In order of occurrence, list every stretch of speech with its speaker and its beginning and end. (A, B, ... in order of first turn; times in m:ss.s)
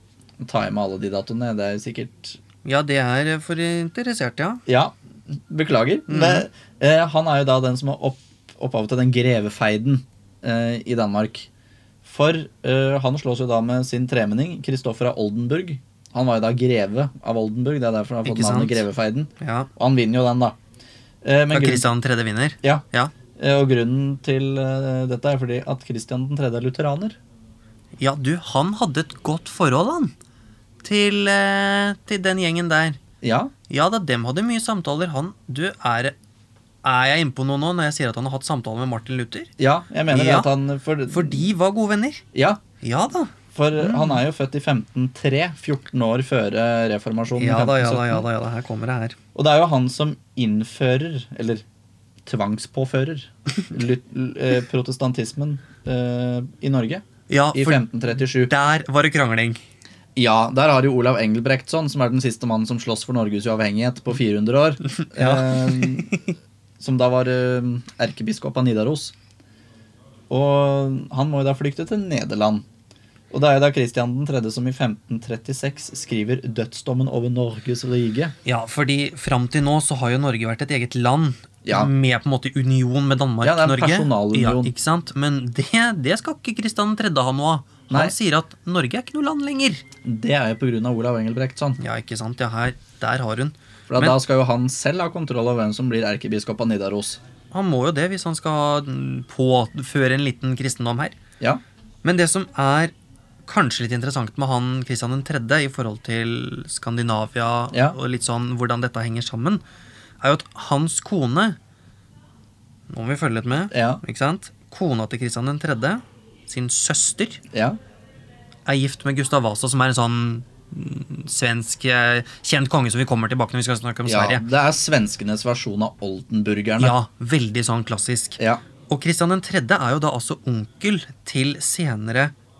0:00.4-0:02.4 A
0:02.6-0:04.6 B
0:04.6-0:11.5 A
0:06.1-0:06.4 B
0:12.0-0:20.6 A
0:18.2-0:18.8 B
0:19.4-0:19.7 B
0:21.2-0:21.9 A
0:21.5-0:23.1 B
0:23.4-0:27.2 A
0:28.0-0:30.1 B
0:30.8-0:33.0 B
0:33.2-0:33.5 A
0:33.7-0:36.1 B
0:36.8-0:39.5 B
0:39.6-0:41.5 A
0:40.1-0:40.5 B
0:41.1-0:42.2 B
0:42.3-0:42.6 A
0:42.8-0:44.2 B
0:43.5-0:48.2 A
0:47.3-0:49.2 B
0:49.3-0:51.6 A
0:52.2-0:58.5 A
0:57.3-0:59.6 B
1:00.2-1:06.2 A
1:04.8-1:06.2 B
1:06.8-1:09.1 A
1:10.3-1:12.6 A
1:13.3-1:18.3 A
1:18.4-1:29.8 B
1:21.6-1:21.9 A
1:23.4-1:24.7 A
1:30.0-1:31.8 A
1:31.8-1:34.2 B
1:33.9-1:37.2 A
1:37.5-1:41.2 B
1:42.0-1:42.9 B
1:43.4-1:49.6 B
1:47.7-1:48.0 A
1:50.2-1:51.6 B
1:52.9-1:57.4 B
1:53.7-1:54.0 A
1:57.5-1:57.8 A
1:58.6-2:04.4 B
2:04.0-2:07.0 A
2:06.8-2:12.3 B